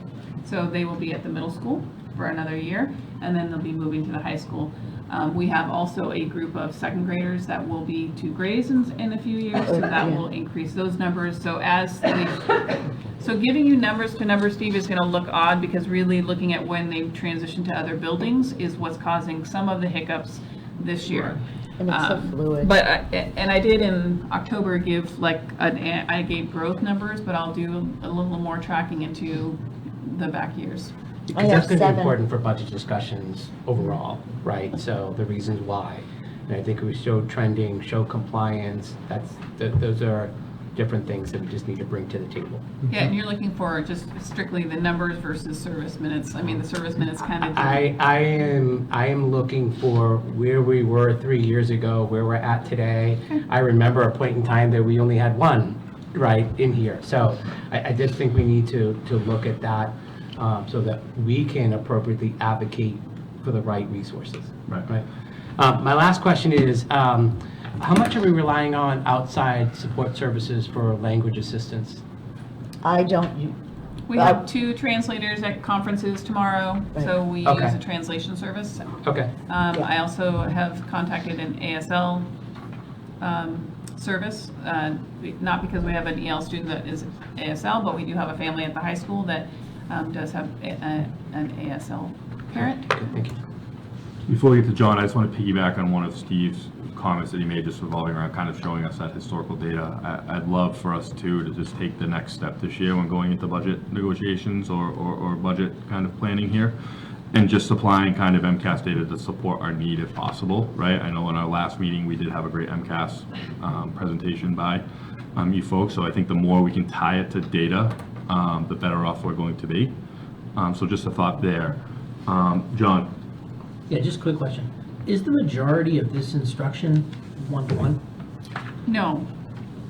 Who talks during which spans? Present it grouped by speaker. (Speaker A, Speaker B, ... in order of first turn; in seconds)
Speaker A: 0.4-12.6, 13.2-30.9, 42.9-47.9, 74.1-79.0, 79.5-82.3, 83.2-93.0, 128.9-129.3
Speaker B: 9.6-10.3, 21.8-22.7, 31.3-32.2, 72.8-73.5, 74.1-74.4
Speaker C: 31.3-42.6, 47.5-65.0, 65.6-72.0, 77.4-77.8, 79.0-79.3, 92.9-93.4
Speaker D: 94.3-106.8, 107.3-114.8, 115.4-119.9, 120.6-123.1
Speaker E: 123.9-128.0